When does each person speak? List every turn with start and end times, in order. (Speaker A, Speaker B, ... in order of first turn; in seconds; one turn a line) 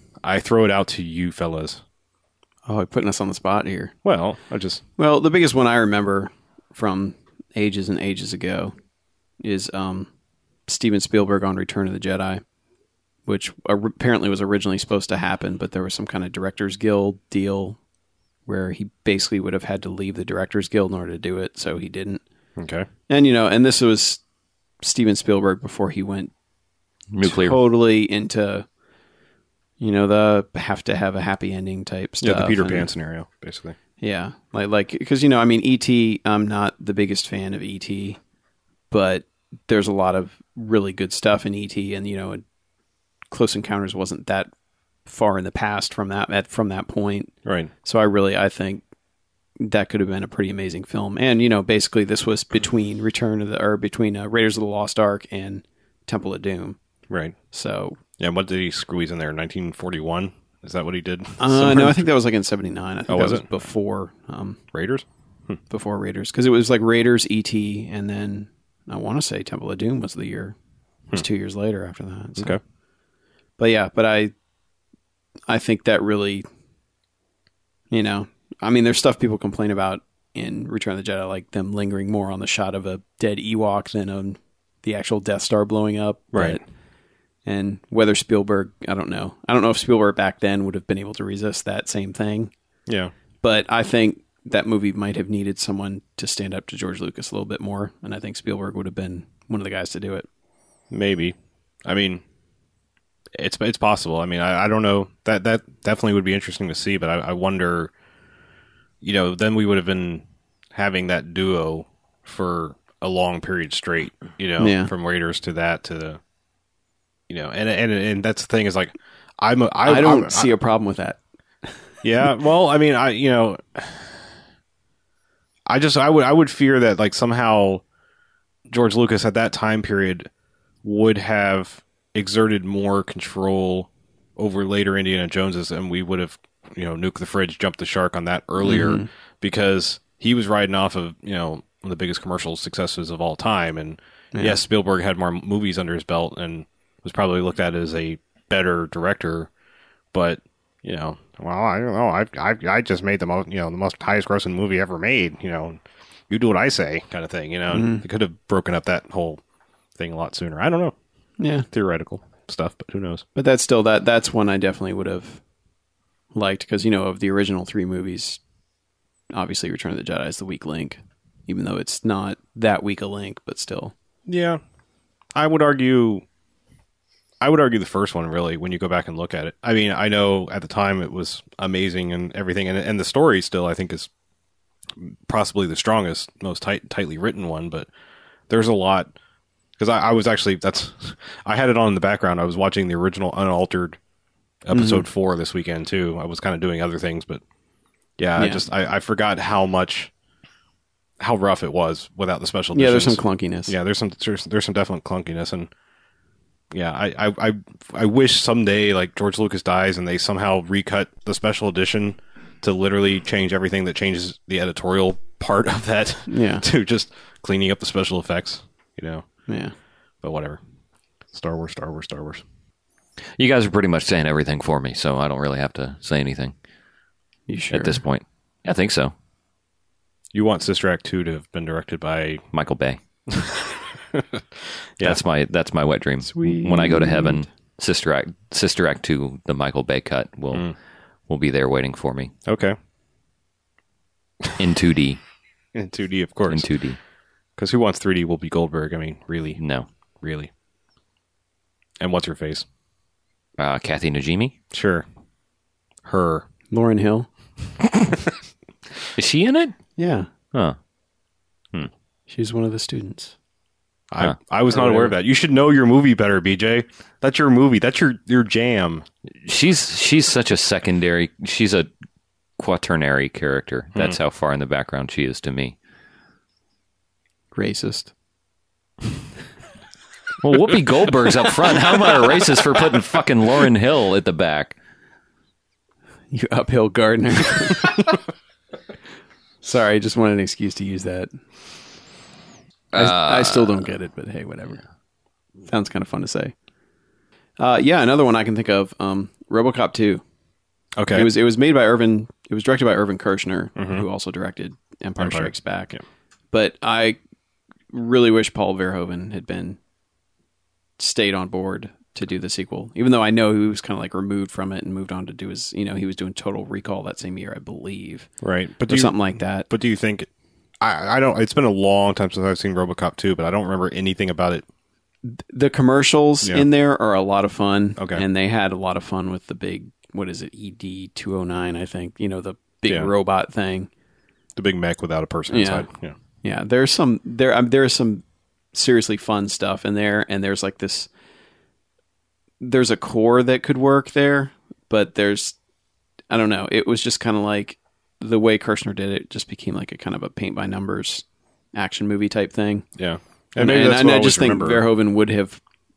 Speaker A: 0.2-1.8
Speaker B: 2.7-3.9
Speaker A: 4.0-4.8
Speaker B: 5.0-8.7
Speaker B: 9.4-10.1
Speaker B: 10.7-12.4
Speaker B: 13.2-17.8
Speaker B: 18.5-22.2
Speaker A: 22.6-22.9
Speaker B: 23.1-24.2
Speaker B: 24.8-26.3
Speaker C: 27.1-27.6
Speaker B: 27.2-28.6
Speaker B: 29.8-32.9
Speaker A: 32.2-33.8
Speaker B: 34.0-38.2
Speaker B: 38.9-42.4
Speaker B: 43.3-44.5
Speaker B: 45.0-47.3
Speaker A: 47.4-47.7
Speaker B: 47.8-48.8
Speaker B: 49.6-56.8
Speaker A: 57.1-57.4
Speaker B: 57.5-58.0
Speaker A: 58.2-62.0
Speaker B: 61.4-64.6
Speaker A: 63.1-63.5
Speaker A: 64.7-65.6
Speaker B: 65.7-70.5
Speaker B: 71.1-72.6
Speaker B: 73.6-74.3
Speaker B: 75.5-76.4
Speaker B: 77.9-86.6
Speaker A: 86.3-86.6
Speaker B: 87.5-92.5
Speaker A: 92.9-93.1
Speaker B: 93.4-100.2
Speaker A: 100.9-102.2
Speaker A: 103.4-107.9
Speaker A: 109.0-116.2
Speaker B: 114.6-114.9
Speaker A: 117.3-120.5
Speaker B: 119.8-121.7
Speaker A: 122.0-124.1
Speaker A: 125.7-127.8
Speaker A: 128.7-130.3
Speaker A: 130.8-149.5
Speaker B: 138.6-139.1
Speaker B: 144.3-144.6
Speaker A: 150.1-159.4
Speaker B: 157.7-158.0
Speaker A: 159.9-160.9
Speaker B: 161.4-161.7
Speaker A: 161.7-163.2
Speaker B: 163.3-165.4
Speaker B: 166.3-168.4
Speaker B: 169.3-173.9
Speaker A: 174.3-174.6
Speaker A: 175.3-176.2
Speaker A: 177.4-184.1
Speaker A: 185.0-187.9
Speaker A: 188.5-189.1
Speaker A: 189.8-194.0
Speaker A: 194.6-197.4
Speaker B: 194.7-195.0
Speaker A: 198.2-200.1
Speaker B: 198.4-198.6
Speaker A: 201.2-205.7
Speaker B: 202.7-203.7
Speaker A: 206.7-219.2
Speaker B: 216.3-216.6
Speaker B: 219.5-219.7
Speaker A: 220.2-220.6
Speaker A: 221.3-222.4
Speaker C: 223.4-226.5
Speaker B: 227.5-228.0
Speaker C: 227.7-229.1
Speaker A: 230.3-232.4
Speaker C: 232.5-233.0
Speaker A: 233.3-234.4
Speaker C: 235.0-240.7
Speaker B: 236.2-237.4
Speaker C: 241.3-242.3
Speaker A: 242.4-242.8
Speaker C: 244.6-245.2
Speaker A: 245.7-246.7
Speaker C: 246.5-247.0
Speaker A: 247.6-249.6
Speaker C: 249.6-249.8
Speaker A: 250.2-250.5
Speaker A: 252.0-252.6
Speaker C: 253.6-254.5
Speaker A: 254.7-255.1
Speaker A: 256.0-256.4
Speaker B: 256.7-257.3
Speaker C: 259.1-259.7
Speaker B: 260.0-260.3
Speaker B: 262.3-263.3
Speaker A: 264.1-269.0
Speaker B: 264.7-265.1
Speaker C: 269.4-271.9
Speaker C: 272.6-275.8
Speaker B: 277.5-278.1
Speaker C: 280.4-284.8
Speaker B: 286.3-288.1
Speaker B: 289.6-291.3
Speaker C: 292.9-293.8
Speaker B: 292.9-294.8
Speaker B: 295.7-296.5
Speaker B: 297.6-300.2
Speaker A: 301.0-301.3
Speaker B: 301.1-306.0
Speaker A: 303.8-304.0
Speaker A: 305.2-306.0
Speaker B: 306.5-307.2
Speaker B: 307.9-309.8
Speaker B: 311.0-318.3
Speaker A: 318.4-320.3
Speaker B: 318.9-319.7
Speaker A: 320.8-324.6
Speaker B: 325.2-333.9
Speaker A: 328.0-328.2
Speaker A: 332.9-333.1
Speaker A: 334.6-336.1
Speaker B: 335.5-335.9
Speaker B: 336.4-341.1
Speaker B: 342.6-345.6
Speaker B: 346.3-352.8
Speaker A: 353.0-354.9
Speaker B: 353.6-355.6